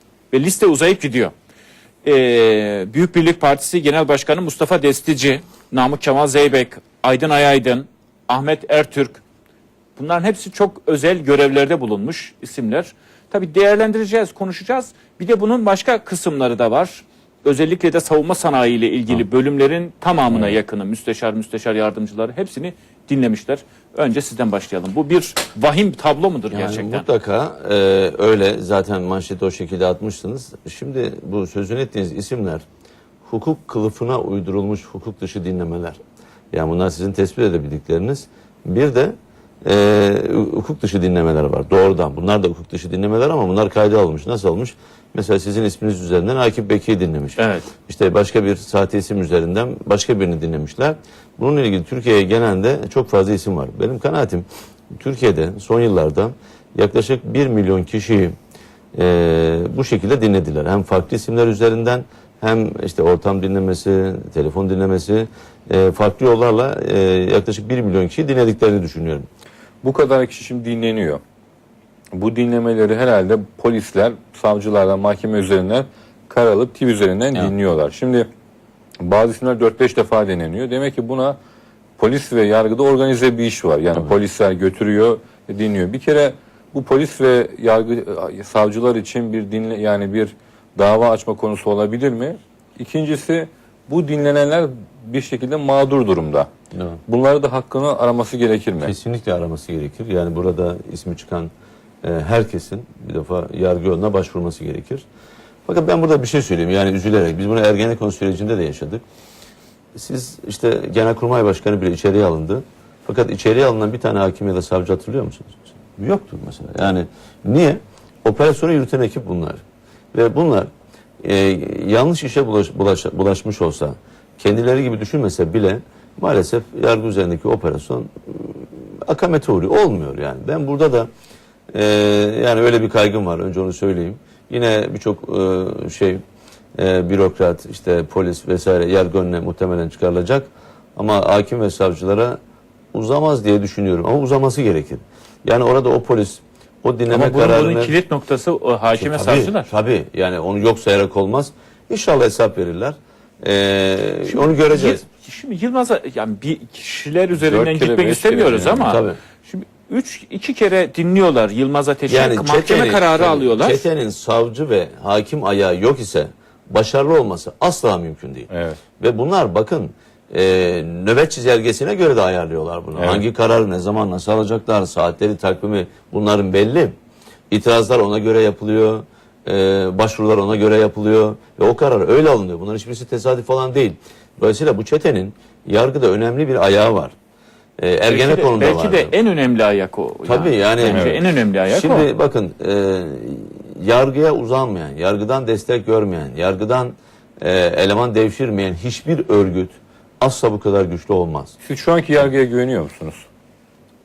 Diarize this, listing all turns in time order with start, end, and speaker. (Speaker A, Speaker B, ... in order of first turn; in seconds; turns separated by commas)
Speaker A: 0.3-1.3, Speaker A: 2.0-9.2, Speaker A: 10.0-27.1, Speaker B: 20.3-20.6, Speaker B: 26.5-32.6, Speaker B: 33.2-36.0, Speaker B: 36.5-58.3, Speaker A: 47.4-47.7, Speaker B: 59.0-69.3, Speaker C: 69.8-71.2, Speaker C: 72.1-78.3, Speaker C: 79.0-81.4, Speaker C: 82.0-96.5, Speaker B: 96.7-97.0, Speaker C: 97.1-98.9, Speaker B: 98.8-101.5, Speaker B: 102.0-105.0, Speaker B: 105.7-109.0, Speaker B: 110.0-119.6, Speaker B: 120.1-120.7, Speaker B: 121.2-131.1, Speaker B: 131.7-136.2, Speaker B: 136.8-142.4, Speaker B: 142.9-148.0, Speaker A: 147.1-149.7, Speaker B: 149.0-155.0, Speaker A: 154.3-163.9, Speaker C: 157.4-158.8, Speaker B: 158.7-159.2, Speaker B: 162.1-176.9, Speaker C: 168.5-168.8, Speaker C: 173.0-173.2, Speaker B: 177.5-187.2, Speaker B: 187.8-189.1, Speaker A: 188.1-192.1, Speaker B: 190.2-201.6, Speaker C: 190.9-191.2, Speaker C: 201.6-203.2